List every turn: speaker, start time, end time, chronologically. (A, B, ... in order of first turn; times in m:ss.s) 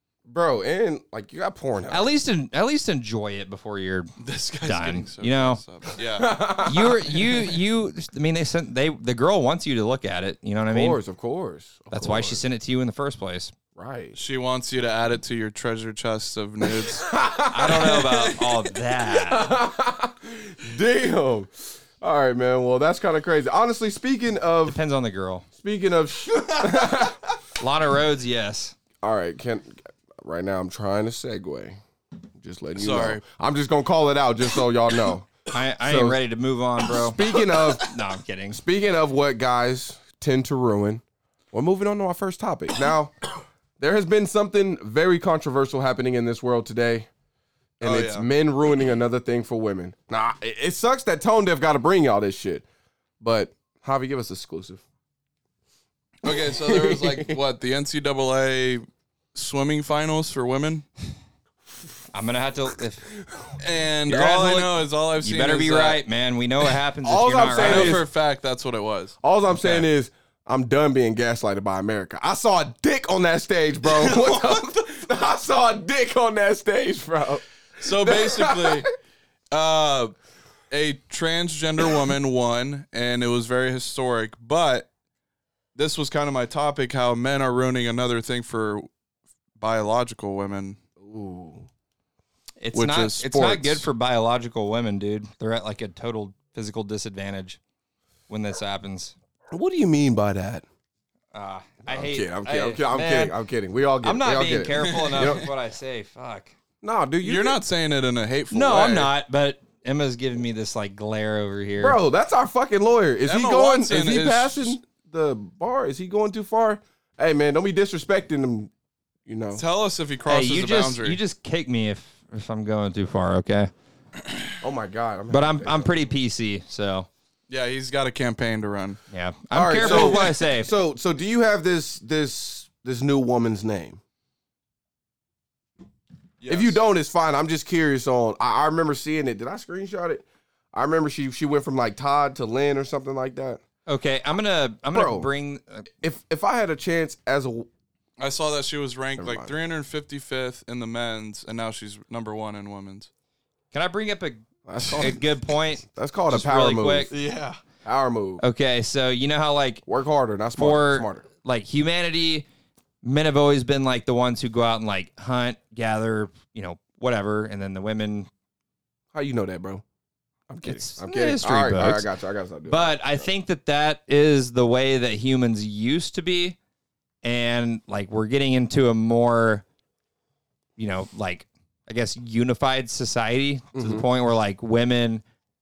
0:00.2-0:02.1 A
0:01.9-0:04.1 B
0:04.2-0:06.6 C
0:04.6-0:05.6 B
0:06.2-0:07.3 A
0:06.6-0:11.0 B
0:10.7-0:12.4 A
0:11.9-0:13.5 B
0:13.8-0:14.2 A
0:14.1-0:17.1 C
0:17.0-0:17.8 A
0:17.5-0:19.5 B
0:17.8-0:18.6 C
0:19.0-0:24.8 A
0:24.6-0:25.4 B
0:25.5-0:27.2 A
0:26.6-0:27.1 C
0:27.6-0:28.7 B
0:29.0-0:31.8 A
0:32.4-0:36.2 A
0:32.8-0:33.2 C
0:35.5-0:38.6 B
0:36.8-0:37.9 A
0:38.5-0:43.2 A
0:43.8-0:47.1 A
0:47.8-0:52.6 A
0:47.8-0:48.3 C
0:53.2-0:54.8 A
0:56.2-1:00.8 C
0:56.2-0:57.4 A
1:02.1-1:03.1 B
1:03.3-1:03.6 A
1:03.6-1:06.0 C
1:04.1-1:08.0 B
1:07.0-1:08.1 A
1:07.6-1:09.2 C
1:09.2-1:17.4 A
1:09.6-1:09.8 B
1:13.9-1:14.6 C
1:17.8-1:18.9 C
1:18.0-1:18.8 A
1:19.5-1:20.1 C
1:20.7-1:24.9 C
1:25.7-1:28.9 C
1:29.6-1:30.8 C
1:31.0-1:31.7 A
1:32.6-1:37.6 B
1:32.7-1:33.8 C
1:38.3-1:39.1 B
1:39.5-1:40.6 A
1:41.3-1:43.3 B
1:41.8-1:45.5 A
1:44.0-1:46.5 B
1:44.8-1:45.4 C
1:46.8-1:47.6 A
1:47.2-1:49.1 C
1:48.5-1:52.0 B
1:51.8-1:58.7 A
1:53.2-1:54.8 C
1:59.2-1:59.6 A
1:59.5-2:01.2 C
2:00.3-2:03.7 B
2:04.6-2:06.0 A
2:05.3-2:07.1 B
2:07.5-2:09.0 C
2:09.1-2:10.7 B
2:09.5-2:14.0 A
2:09.7-2:10.3 C
2:16.4-2:16.8 C
2:16.5-2:23.6 A
2:23.9-2:25.9 B
2:24.9-2:25.3 A
2:26.0-2:27.7 A
2:28.2-2:33.1 C
2:29.2-2:29.5 A
2:33.7-2:34.4 B
2:34.6-2:35.3 A
2:35.0-2:37.1 B
2:35.8-2:37.1 A
2:37.1-2:37.6 C
2:37.8-2:38.4 A
2:38.4-2:39.8 B
2:39.8-2:41.2 A
2:40.6-2:42.4 B
2:43.0-2:48.3 B
2:49.1-2:49.8 A
2:50.5-2:53.3 A
2:50.6-2:52.1 B
2:52.7-2:56.6 B
2:57.2-2:59.6 B
3:00.8-3:05.2 B
3:03.7-3:04.0 A